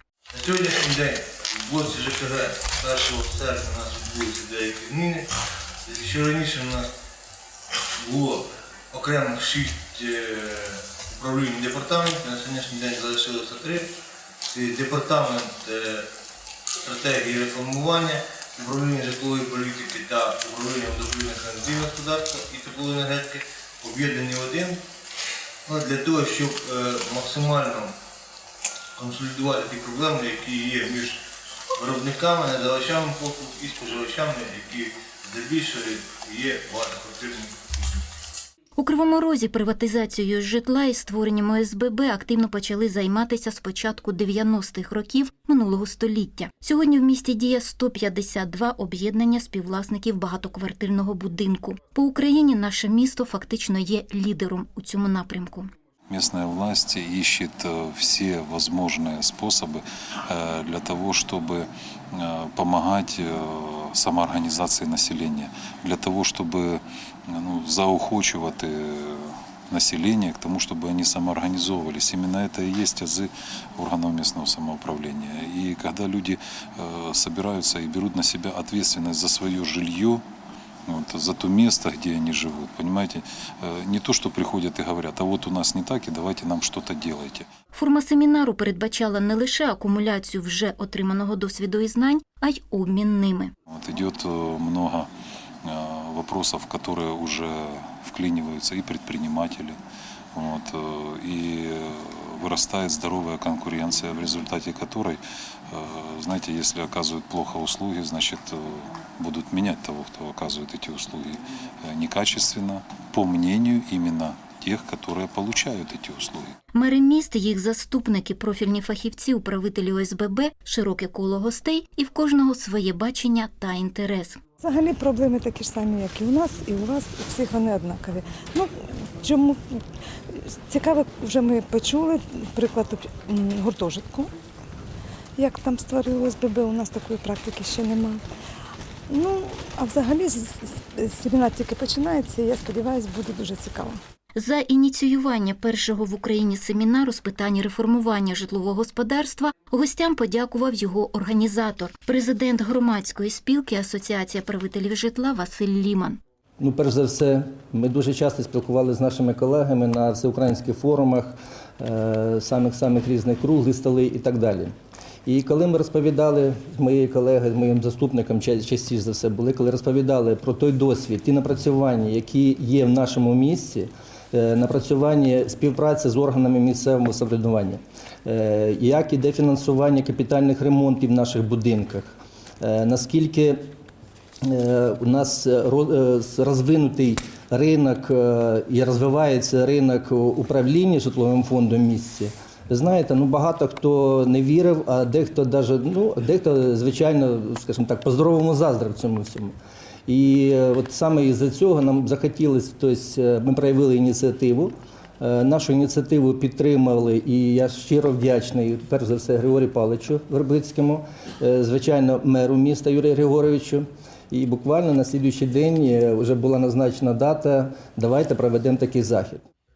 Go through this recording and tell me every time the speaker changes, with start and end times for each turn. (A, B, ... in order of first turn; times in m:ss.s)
0:00.3-0:05.3 A
0:05.8-0:06.9 A
0:07.9-0:13.9 A
0:14.4-0:16.1 A
0:16.8-0:24.8 A
0:25.7-0:27.9 A
0:29.0-0:31.2 A
0:31.8-0:38.0 A
0:38.8-0:55.7 B
0:56.1-1:20.2 C
1:20.9-1:27.5 C
1:27.7-1:33.5 B
1:33.7-1:35.1 C
1:35.6-1:39.8 C
1:40.3-1:56.6 C
1:56.8-2:04.4 B
2:04.6-2:09.8 D
2:10.5-2:14.3 D
2:15.4-2:18.2 D
2:19.1-2:24.0 D
2:24.4-2:36.2 B
2:36.6-2:44.7 E
2:45.3-3:03.6 E
3:04.4-3:19.6 E
3:20.1-3:39.4 E